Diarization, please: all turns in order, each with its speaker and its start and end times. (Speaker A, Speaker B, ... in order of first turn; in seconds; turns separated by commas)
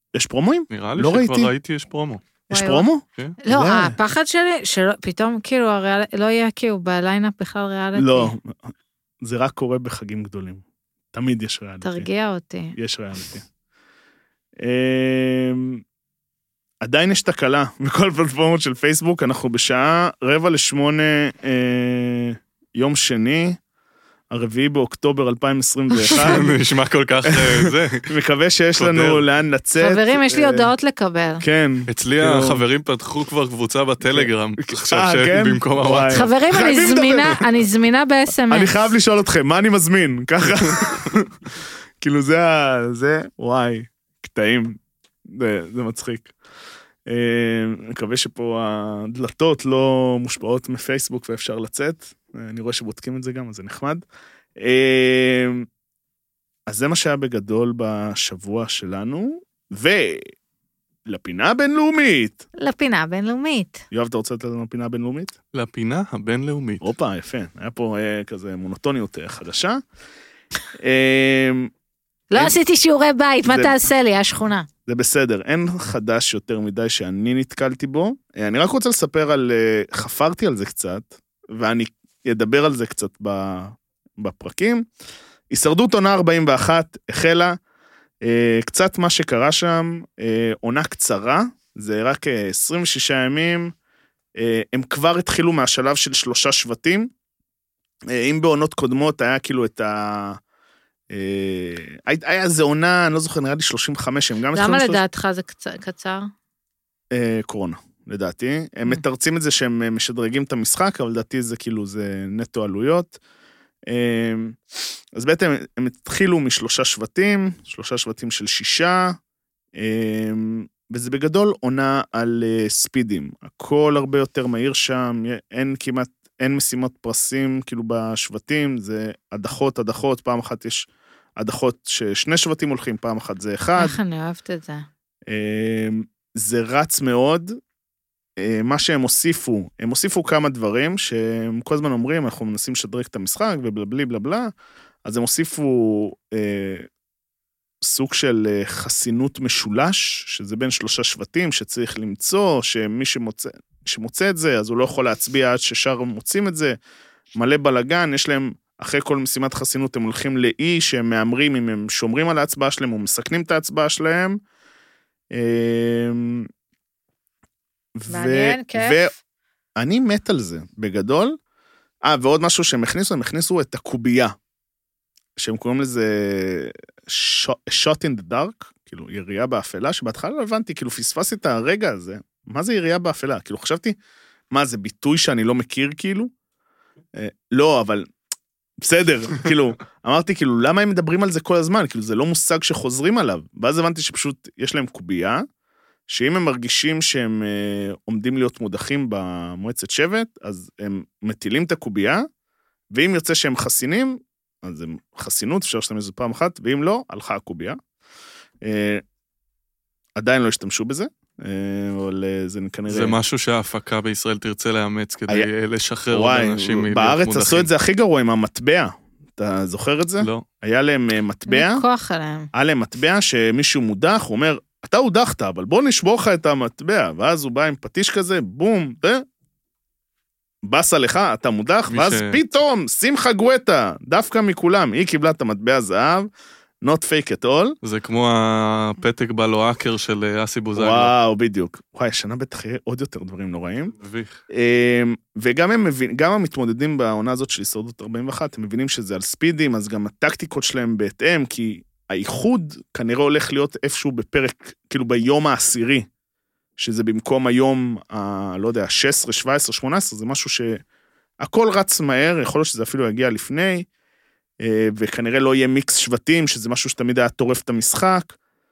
Speaker A: 0.1-1.5, Speaker B: 0.7-2.2, Speaker A: 2.5-4.0, Speaker C: 2.5-2.9, Speaker C: 3.4-8.3, Speaker A: 8.0-12.1, Speaker C: 11.8-12.8, Speaker A: 12.8-13.5, Speaker A: 14.6-15.8, Speaker A: 16.8-23.6, Speaker A: 24.3-26.6, Speaker C: 25.9-26.4, Speaker B: 26.1-28.1, Speaker A: 27.2-30.7, Speaker B: 28.8-29.2, Speaker C: 29.8-31.4, Speaker A: 31.4-32.6, Speaker B: 31.9-36.3, Speaker A: 34.1-37.6, Speaker C: 36.1-38.9, Speaker A: 38.5-41.4, Speaker A: 42.0-46.4, Speaker A: 47.1-54.0, Speaker A: 54.6-55.7, Speaker A: 56.7-60.3, Speaker A: 61.1-62.5, Speaker C: 62.6-63.9, Speaker A: 63.9-65.3, Speaker B: 65.5-66.9, Speaker A: 66.8-69.8, Speaker A: 70.8-71.7, Speaker C: 72.3-74.7, Speaker A: 73.5-73.8, Speaker A: 74.9-84.8, Speaker A: 85.5-87.6, Speaker A: 88.2-93.7, Speaker A: 94.4-97.1, Speaker A: 98.1-100.4, Speaker A: 101.1-105.0, Speaker C: 104.5-106.3, Speaker A: 107.1-113.2, Speaker A: 113.9-114.6, Speaker A: 115.2-119.2, Speaker A: 119.8-134.0, Speaker C: 133.8-134.9, Speaker A: 135.3-137.6, Speaker A: 138.4-144.5, Speaker A: 145.1-146.9, Speaker A: 147.8-156.8, Speaker A: 157.3-164.4, Speaker A: 165.3-166.5, Speaker A: 168.0-169.1, Speaker C: 168.1-169.1, Speaker A: 169.8-171.4, Speaker A: 172.0-174.4, Speaker A: 175.4-184.0, Speaker A: 184.5-186.3, Speaker A: 187.2-188.1, Speaker A: 188.8-195.4, Speaker A: 196.1-202.3, Speaker A: 202.9-207.8, Speaker A: 208.6-209.0, Speaker A: 210.2-213.2, Speaker B: 212.9-217.7, Speaker A: 216.1-221.8, Speaker B: 220.2-220.5, Speaker C: 221.5-222.5, Speaker A: 222.5-229.2, Speaker A: 230.6-236.3, Speaker B: 231.9-232.4, Speaker A: 236.8-237.8, Speaker B: 237.8-241.1, Speaker A: 240.8-243.9, Speaker B: 244.0-244.4, Speaker A: 244.5-256.1, Speaker A: 256.8-260.8, Speaker A: 261.4-263.9, Speaker A: 264.6-268.4